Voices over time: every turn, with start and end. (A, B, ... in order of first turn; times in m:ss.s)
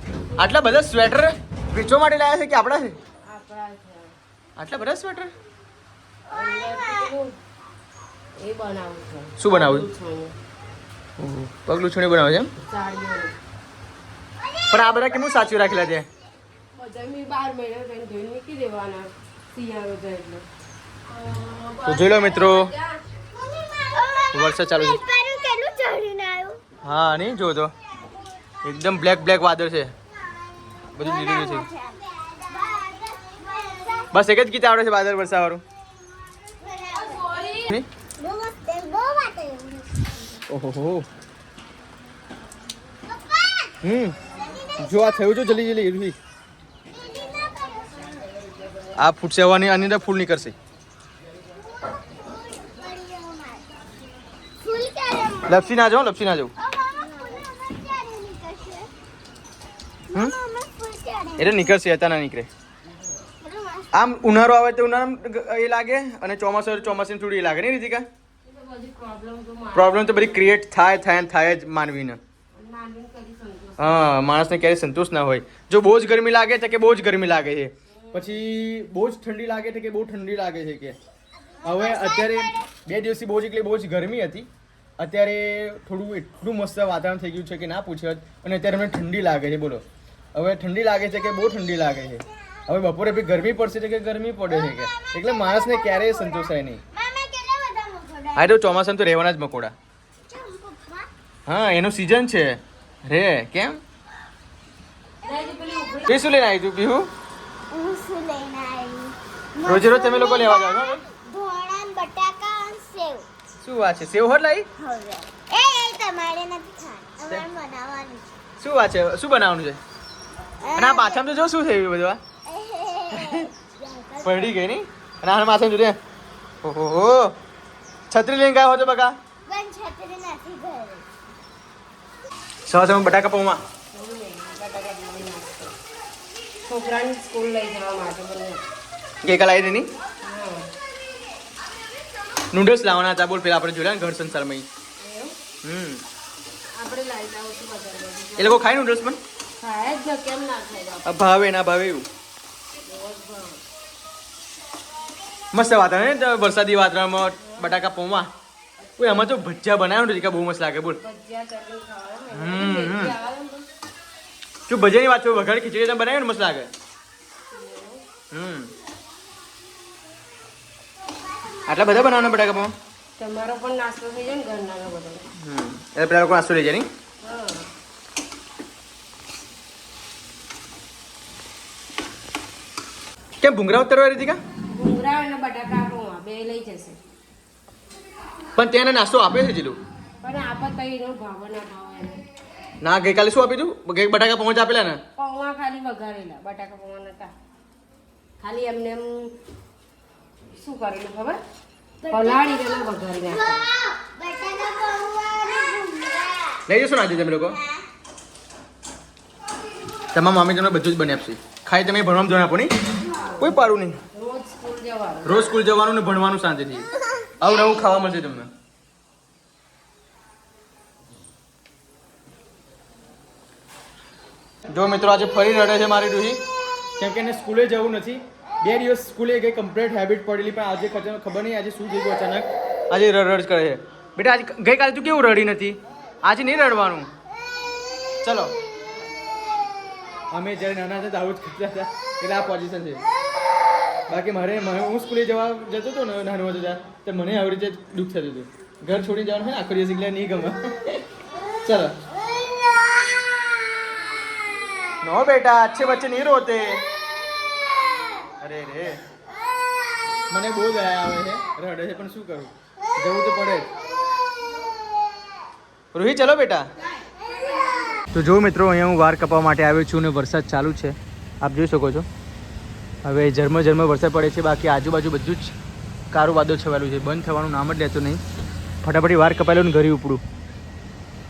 0:00.4-0:03.0 A
0:03.2-0:04.1 B
0:04.6-0:05.3 A
0:06.3-0:07.3 B
0:06.5-0:07.1 C
0:08.4-0:10.4 B
0:09.4-0:09.9 A
0:11.2-0:12.5 A
0:12.6-0:13.3 B
0:14.4-0:15.6 C
0:14.7-0:16.0 A
0:16.8-0:20.4 B
0:21.0-0:23.0 B
0:21.8-0:22.7 A
0:23.3-0:26.6 C
0:24.3-0:25.0 A
0:26.8-0:27.7 A
0:28.6-0:29.9 A
0:30.9-0:31.7 A
0:31.0-0:34.1 C
0:34.1-0:35.6 A
0:36.4-0:37.6 C
0:37.0-0:37.6 B
0:37.6-0:37.9 A
0:38.2-0:40.1 C
0:40.5-0:41.0 A
0:43.0-0:43.8 C
0:43.8-0:44.2 A
0:44.3-0:45.2 C
0:44.8-0:46.2 A
0:46.9-0:48.2 C
0:49.0-0:50.5 A
0:51.6-0:53.6 C
0:54.6-0:55.8 C
0:55.4-0:56.5 A
0:56.6-0:58.9 C
1:00.1-1:01.7 C
1:01.4-1:02.5 A
1:03.4-1:03.9 C
1:03.9-1:08.1 A
1:08.4-1:10.5 B
1:09.7-1:12.2 A
1:12.5-1:14.2 B
1:13.8-1:21.0 A
1:18.0-1:18.4 B
1:21.6-1:24.5 A
1:21.6-1:22.5 C
1:25.0-1:29.8 A
1:30.3-1:36.8 A
1:34.5-1:38.6 C
1:38.3-1:39.7 A
1:40.3-1:41.1 C
1:41.5-1:43.8 A
1:45.2-1:46.2 B
1:46.0-1:47.1 A
1:47.7-1:53.2 C
1:49.6-1:51.0 A
1:53.6-1:54.7 A
1:54.8-1:58.3 C
1:58.6-1:59.8 A
2:00.6-2:01.2 C
2:00.7-2:02.2 A
2:02.5-2:04.6 C
2:04.2-2:06.0 A
2:06.6-2:07.4 A
2:08.1-2:09.1 A
2:09.4-2:11.0 C
2:12.6-2:13.6 A
2:13.9-2:15.7 B
2:16.6-2:18.6 B
2:19.2-2:19.9 A
2:20.2-2:20.7 B
2:22.5-2:24.6 A
2:25.0-2:25.4 B
2:25.6-2:26.0 A
2:26.8-2:28.6 B
2:28.4-2:29.2 A
2:29.6-2:31.1 B
2:31.0-2:32.0 A
2:32.9-2:33.6 B
2:35.5-2:38.3 A
2:37.4-2:37.8 B
2:39.0-2:41.0 A
2:41.0-2:43.7 B
2:42.3-2:43.1 A
2:44.7-2:46.7 A
2:47.5-2:48.0 B
2:48.3-2:48.7 A
2:51.6-2:52.7 A
2:53.2-2:55.3 B
2:55.4-2:56.9 A
2:57.2-2:57.7 B
3:03.4-3:04.4 A
3:04.7-3:07.0 B
3:08.5-3:09.8 A
3:10.2-3:12.2 B
3:12.8-3:15.0 A
3:15.2-3:17.3 B
3:18.4-3:19.3 B
3:20.6-3:21.4 B
3:22.0-3:26.6 C
3:22.1-3:23.6 B
3:26.7-3:27.6 A
3:30.1-3:32.7 A
3:33.4-3:34.0 A
3:34.1-3:35.6 B
3:35.2-3:38.5 A
3:44.7-3:46.4 A
3:47.0-3:57.1 A
3:58.2-3:58.5 A
4:00.3-4:03.0 A
4:04.1-4:11.0 A
4:11.6-4:11.9 A
4:15.0-4:16.8 A
4:18.4-4:19.0 A
4:20.3-4:23.7 A
4:25.9-4:26.7 A
4:28.1-4:32.1 A
4:33.0-4:35.5 A
4:36.1-4:38.2 A
4:38.8-4:40.2 A